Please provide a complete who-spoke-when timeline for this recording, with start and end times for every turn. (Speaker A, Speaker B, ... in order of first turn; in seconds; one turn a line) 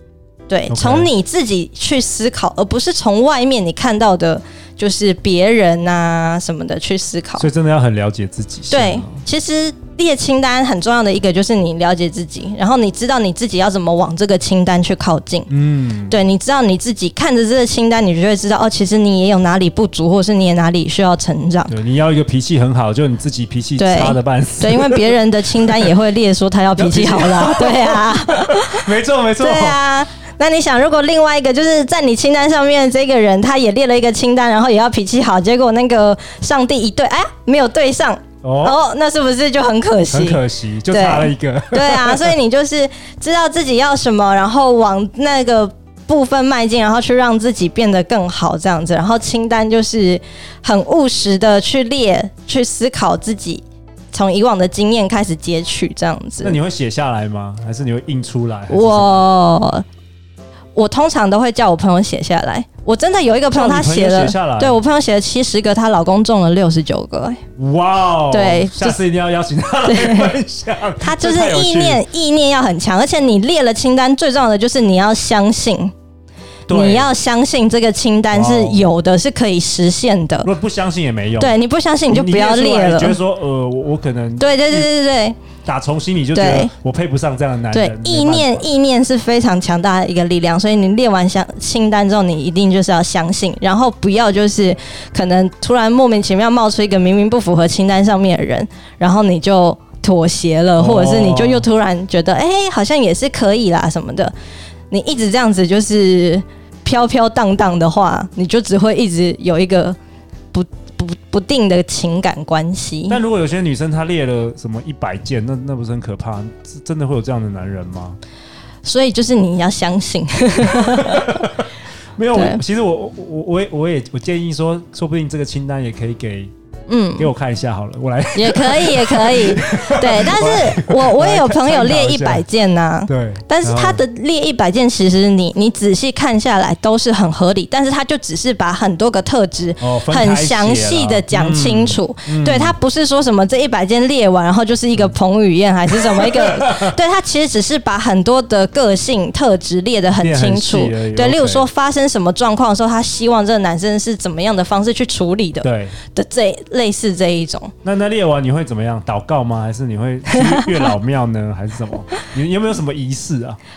Speaker A: 0.5-7.5
Speaker B: 0.7-1.1
Speaker B: 7.4-9.2
Speaker A: 8.7-15.5
Speaker B: 15.5-16.2
Speaker A: 16.1-21.7
Speaker B: 21.7-25.1
Speaker A: 23.8-28.9
Speaker B: 26.8-29.8
Speaker A: 29.4-56.6
Speaker B: 38.4-38.8
Speaker B: 40.1-42.4
Speaker B: 56.4-59.1
Speaker A: 58.7-59.9
Speaker A: 60.8-67.4
Speaker B: 63.5-64.8
Speaker B: 67.6-72.0
Speaker A: 68.3-69.0
Speaker A: 69.8-70.3
Speaker A: 71.0-75.9
Speaker B: 76.7-77.1
Speaker A: 76.7-80.5
Speaker B: 78.3-78.9
Speaker B: 80.4-81.6
Speaker A: 81.4-83.2
Speaker B: 82.1-84.9
Speaker A: 84.4-85.4
Speaker B: 85.7-88.7
Speaker A: 86.3-86.7
Speaker A: 87.7-104.3
Speaker B: 100.8-101.7
Speaker A: 104.9-110.0
Speaker A: 110.5-113.2
Speaker B: 113.1-118.2
Speaker A: 118.8-121.4
Speaker B: 121.0-121.7
Speaker B: 122.2-126.5
Speaker A: 122.3-122.6
Speaker A: 126.9-127.3
Speaker B: 127.2-132.5
Speaker A: 128.3-157.7
Speaker B: 133.1-134.0
Speaker B: 139.8-142.8
Speaker B: 145.9-146.9
Speaker B: 150.2-151.7
Speaker B: 155.6-156.0
Speaker B: 157.8-163.6
Speaker A: 160.3-160.9